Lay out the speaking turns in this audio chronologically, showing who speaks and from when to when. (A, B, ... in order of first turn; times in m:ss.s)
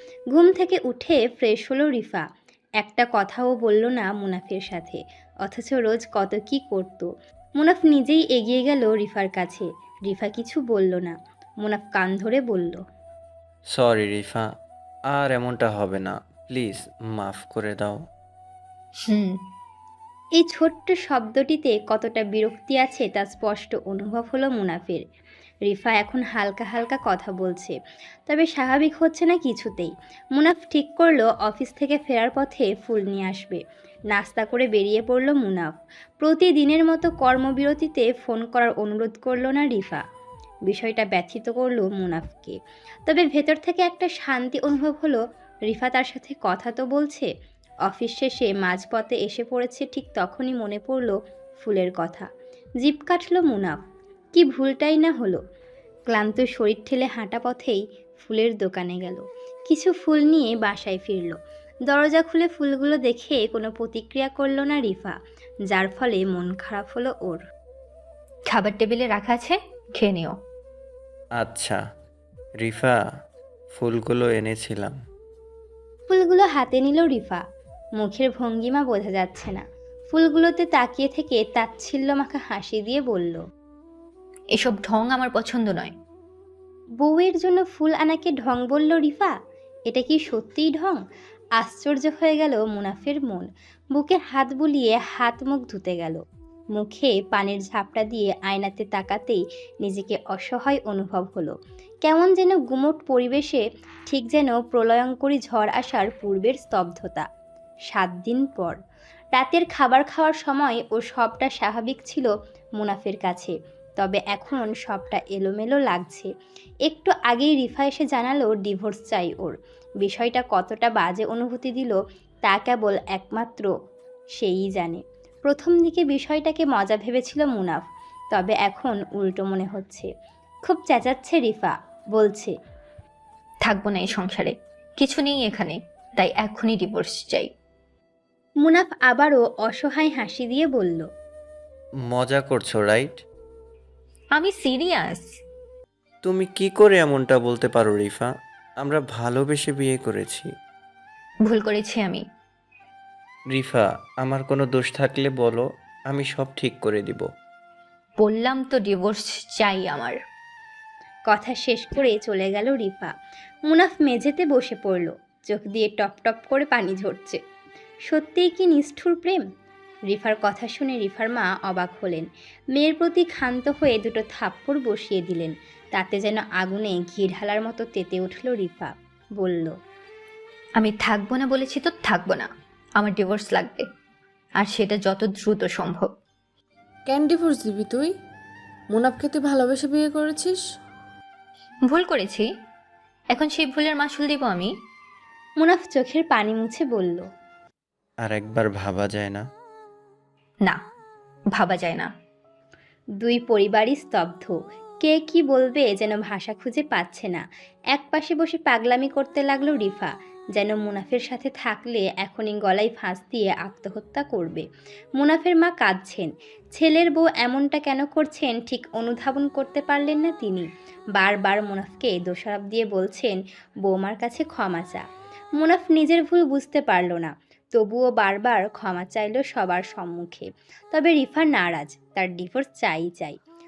0:00.3-0:02.2 A
0:02.8-0:12.8 A
0:13.7-0:14.5 B
0:15.1-0:18.0 B
0:19.0-0:19.4 C
0:20.4-0:25.0 A
0:25.7-0:27.7 A
0:28.3-0:40.0 A
0:40.7-0:42.6 A
0:43.1-0:47.3 A
0:47.8-0:52.3 A
0:52.8-0:53.8 A
0:54.3-0:55.4 A
0:56.1-1:01.4 A
1:01.9-1:05.2 A
1:05.7-1:07.4 A
1:08.5-1:10.4 C
1:11.4-1:11.8 B
1:12.6-1:13.0 B
1:13.7-1:14.9 B
1:16.1-1:17.4 A
1:18.0-1:23.4 A
1:24.5-1:25.9 C
1:27.0-1:29.3 A
1:29.9-1:31.0 A
1:31.6-1:36.2 A
1:36.8-1:47.2 A
1:47.9-1:48.8 A
1:49.3-1:56.3 A
1:56.9-2:03.7 A
2:04.4-2:10.1 A
2:10.6-2:12.5 A
2:13.6-2:17.5 C
2:18.6-2:21.1 A
2:22.1-2:23.2 B
2:24.3-2:25.3 C
2:26.2-2:28.3 B
2:28.8-2:30.5 B
2:31.4-2:32.2 C
2:33.5-2:37.3 B
2:38.2-2:40.2 C
2:41.3-2:43.1 A
2:43.7-2:47.4 A
2:48.1-2:49.4 A
2:50.1-2:59.7 A
3:00.8-3:03.9 C
3:04.6-3:06.1 C
3:07.1-3:08.1 D
3:08.9-3:10.6 D
3:11.9-3:12.5 C
3:13.3-3:14.7 C
3:15.6-3:17.2 A
3:18.2-3:19.4 B
3:21.5-3:22.1 C
3:23.2-3:34.6 A
3:35.2-3:45.0 A
3:45.6-3:53.4 A